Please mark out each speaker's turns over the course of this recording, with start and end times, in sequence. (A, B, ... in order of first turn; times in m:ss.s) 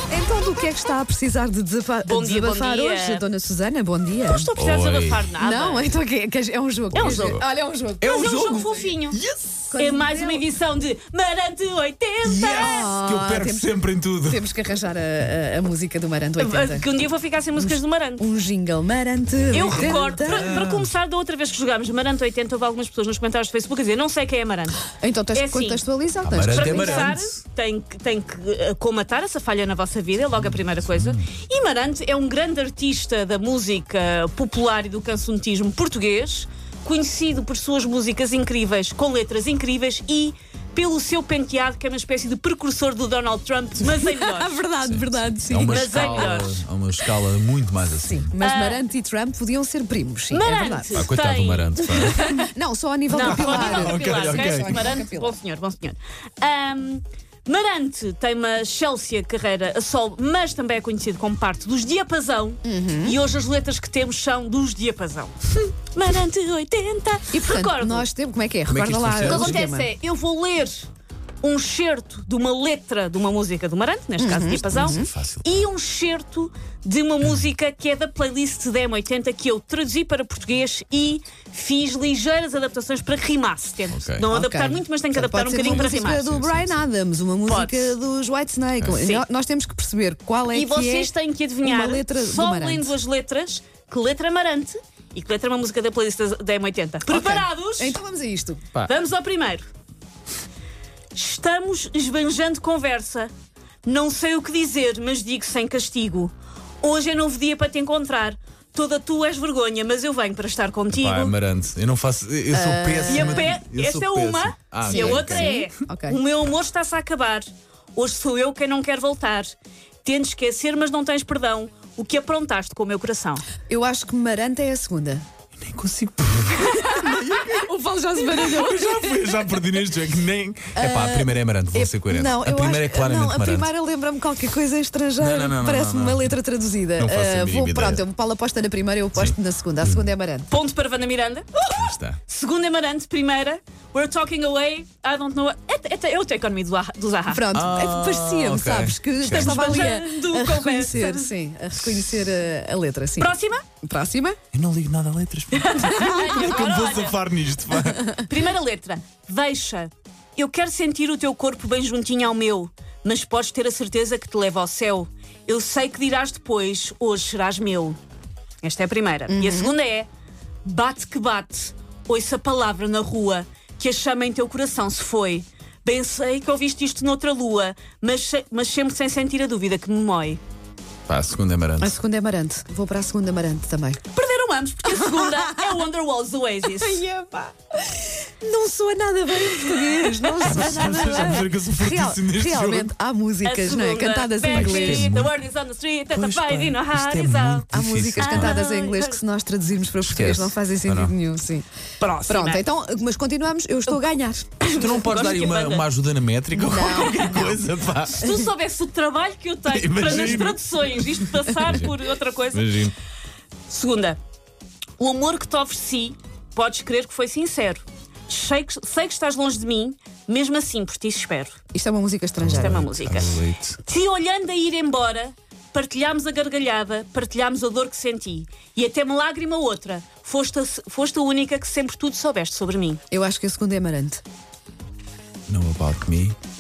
0:00.1-0:04.5 A
0:02.1-0:03.2 B
0:04.3-0:05.9 B
0:04.6-0:05.3 C
0:05.4-0:08.9 A
0:06.9-0:07.4 B
0:07.0-0:07.4 C
0:08.0-0:09.7 C
0:08.1-0:09.2 B
0:09.7-0:10.4 A
0:09.8-0:12.9 B
0:12.2-0:14.5 C
0:12.5-0:13.7 A
0:14.2-0:16.9 A
0:16.4-0:18.3 B
0:17.6-0:20.6 A
0:19.4-0:20.9 C
0:19.5-0:24.8 B
0:25.0-0:27.1 A
0:25.3-0:25.8 B
0:26.2-0:27.4 C
0:26.5-0:44.6 B
0:30.4-0:31.2 C
0:43.8-0:46.5 A
0:44.8-0:48.4 C
0:45.5-0:46.6 B
0:48.0-0:51.1 A
0:48.4-0:48.8 B
0:50.3-0:52.5 B
0:50.9-0:52.2 C
0:52.0-0:55.4 A
0:53.1-1:05.4 B
0:53.2-0:54.9 C
1:02.6-1:03.2 A
1:05.9-1:08.1 B
1:07.3-1:09.9 A
1:08.7-1:09.5 C
1:09.2-1:10.9 B
1:11.4-1:26.2 B
1:14.2-1:15.1 A
1:14.8-1:15.6 C
1:23.9-1:24.3 C
1:24.3-1:31.1 A
1:25.7-1:26.8 C
1:27.5-1:28.0 B
1:29.0-1:29.2 B
1:30.5-1:38.0 B
1:31.6-1:32.9 A
1:37.1-1:38.6 A
1:38.8-1:39.7 B
1:41.1-1:43.3 B
1:43.8-1:51.4 B
1:50.9-1:55.6 C
1:52.5-1:53.5 A
1:53.1-1:59.5 B
1:54.8-1:56.2 A
2:00.0-2:03.5 B
2:03.7-2:05.2 A
2:05.6-2:13.7 C
2:06.6-2:09.5 A
2:10.8-2:20.5 A
2:15.2-2:16.4 C
2:17.0-2:18.0 C
2:19.2-2:20.1 C
2:20.5-2:27.5 B
2:21.7-2:22.2 C
2:27.3-2:34.4 A
2:27.5-2:29.7 C
2:29.3-2:31.3 B
2:33.2-2:33.6 B
2:34.5-2:38.2 C
2:35.5-2:37.2 B
2:35.8-2:36.7 A
2:38.1-2:48.0 B
2:48.6-2:50.1 B
2:49.3-2:49.7 A
2:50.6-3:00.4 B
3:01.1-3:02.0 C
3:01.8-3:04.0 A
3:04.1-3:07.0 B
3:04.9-3:05.5 A
3:06.8-3:15.1 A
3:10.4-3:12.9 C
3:13.4-3:17.6 B
3:14.5-3:15.3 C
3:16.1-3:18.5 C
3:17.7-3:21.7 A
3:18.2-3:19.2 B
3:20.0-3:21.1 C
3:22.0-3:22.6 B
3:22.3-3:24.7 A
3:24.6-3:25.8 B
3:24.6-3:28.2 C
3:26.5-3:27.6 A
3:26.9-3:27.4 B
3:28.1-3:32.8 B
3:29.7-3:31.9 C
3:32.5-3:32.9 C
3:33.7-3:34.2 B
3:35.0-3:41.6 B
3:41.7-3:42.9 A
3:42.4-3:43.8 C
3:42.5-3:53.0 B
3:53.1-3:54.2 A
3:55.5-3:56.4 C